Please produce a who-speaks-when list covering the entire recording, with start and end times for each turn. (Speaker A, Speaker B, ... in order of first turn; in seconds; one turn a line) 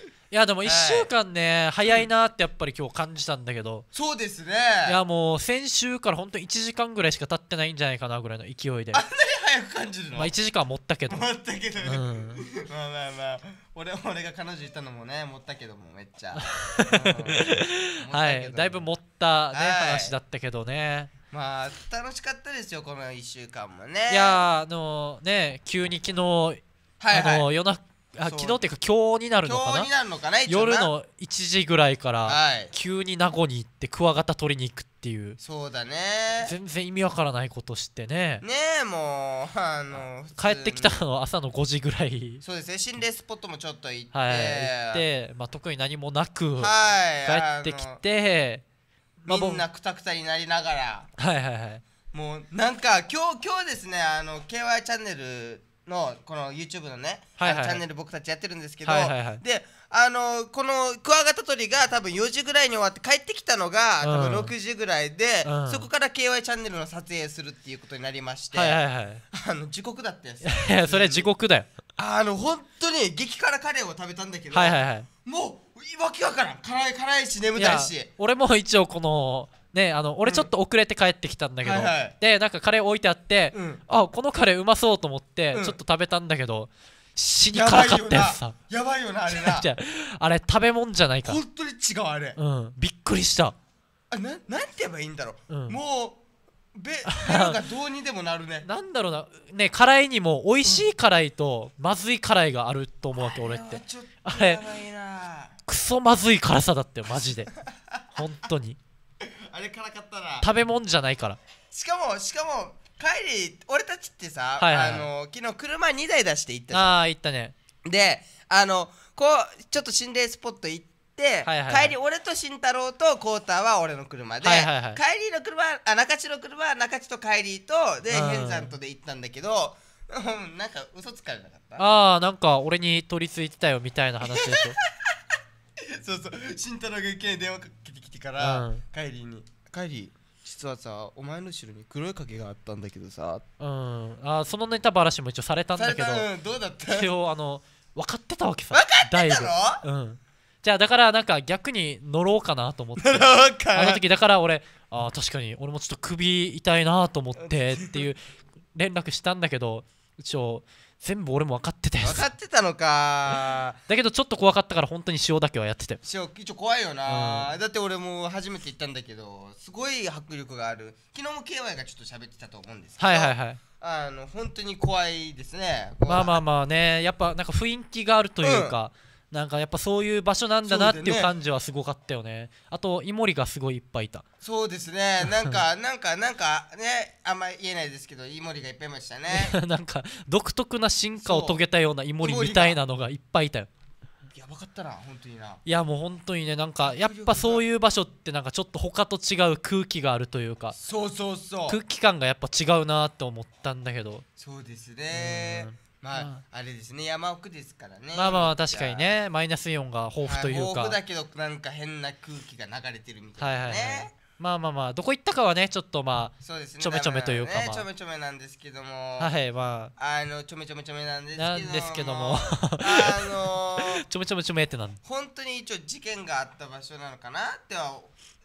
Speaker A: 0.3-3.9
Speaker B: 0.6-1.1
Speaker B: 3.9-5.0
Speaker A: 4.8-9.0
Speaker B: 8.9-10.3
Speaker A: 10.1-11.2
Speaker B: 11.1-18.9
Speaker A: 11.8-12.4
Speaker A: 16.3-21.1
Speaker B: 19.5-20.1
Speaker B: 21.3-24.4
Speaker A: 24.1-26.6
Speaker B: 27.0-27.4
Speaker A: 27.1-29.9
Speaker B: 28.2-28.6
Speaker B: 29.4-30.9
Speaker A: 30.5-35.4
Speaker B: 32.2-32.7
Speaker B: 35.4-36.5
Speaker A: 36.4-38.4
Speaker B: 38.4-41.0
Speaker A: 40.4-42.4
Speaker B: 42.4-45.0
Speaker A: 44.1-46.7
Speaker B: 46.6-48.0
Speaker A: 47.2-48.6
Speaker A: 49.2-49.6
Speaker B: 49.3-51.1
Speaker A: 51.2-51.8
Speaker B: 52.1-68.8
Speaker A: 57.4-57.8
Speaker A: 58.9-59.4
Speaker A: 64.0-64.5
Speaker A: 65.4-65.9
Speaker A: 68.5-69.2
Speaker B: 69.3-71.3
Speaker A: 70.4-71.7
Speaker B: 72.0-78.1
Speaker A: 74.5-75.1
Speaker A: 77.5-88.6
Speaker B: 81.6-82.1
Speaker B: 83.5-83.8
Speaker B: 85.5-85.8
Speaker B: 87.5-89.7
Speaker A: 89.3-91.4
Speaker B: 91.2-92.4
Speaker A: 92.3-93.5
Speaker B: 94.1-96.2
Speaker A: 95.5-95.8
Speaker B: 96.7-98.7
Speaker A: 97.1-97.6
Speaker A: 98.6-104.6
Speaker B: 103.2-105.6
Speaker A: 105.7-107.5
Speaker B: 107.6-108.0
Speaker A: 108.1-108.8
Speaker B: 109.2-110.5
Speaker A: 110.4-111.4
Speaker B: 111.7-116.9
Speaker A: 114.6-115.1
Speaker A: 116.7-117.5
Speaker B: 117.8-131.8
Speaker A: 121.4-121.9
Speaker A: 124.4-125.0
Speaker A: 128.1-128.7
Speaker A: 131.8-134.8
Speaker B: 134.2-135.2
Speaker B: 135.8-143.4
Speaker A: 138.4-138.8
Speaker A: 143.6-146.2
Speaker B: 145.8-147.1
Speaker A: 146.9-158.2
Speaker B: 148.7-149.8
Speaker B: 153.0-154.0
Speaker B: 157.4-158.1
Speaker A: 158.7-162.3
Speaker B: 162.0-163.8
Speaker A: 163.9-166.0
Speaker B: 166.0-176.4
Speaker A: 167.1-167.5
Speaker A: 173.0-173.6
Speaker A: 176.1-184.2
Speaker B: 178.4-178.7
Speaker B: 180.6-181.3
Speaker B: 184.4-189.6
Speaker A: 189.3-193.7
Speaker B: 191.2-191.6
Speaker B: 192.2-192.8
Speaker B: 194.3-195.6
Speaker A: 195.6-200.8
Speaker B: 196.9-197.6
Speaker B: 200.8-201.8
Speaker A: 201.7-204.2
Speaker B: 204.4-209.1
Speaker A: 205.1-206.4
Speaker A: 208.1-211.0
Speaker B: 210.2-214.1
Speaker A: 213.4-217.8
Speaker B: 216.4-219.3
Speaker A: 219.2-219.9
Speaker B: 220.0-224.0
Speaker A: 221.3-225.0
Speaker B: 225.0-228.1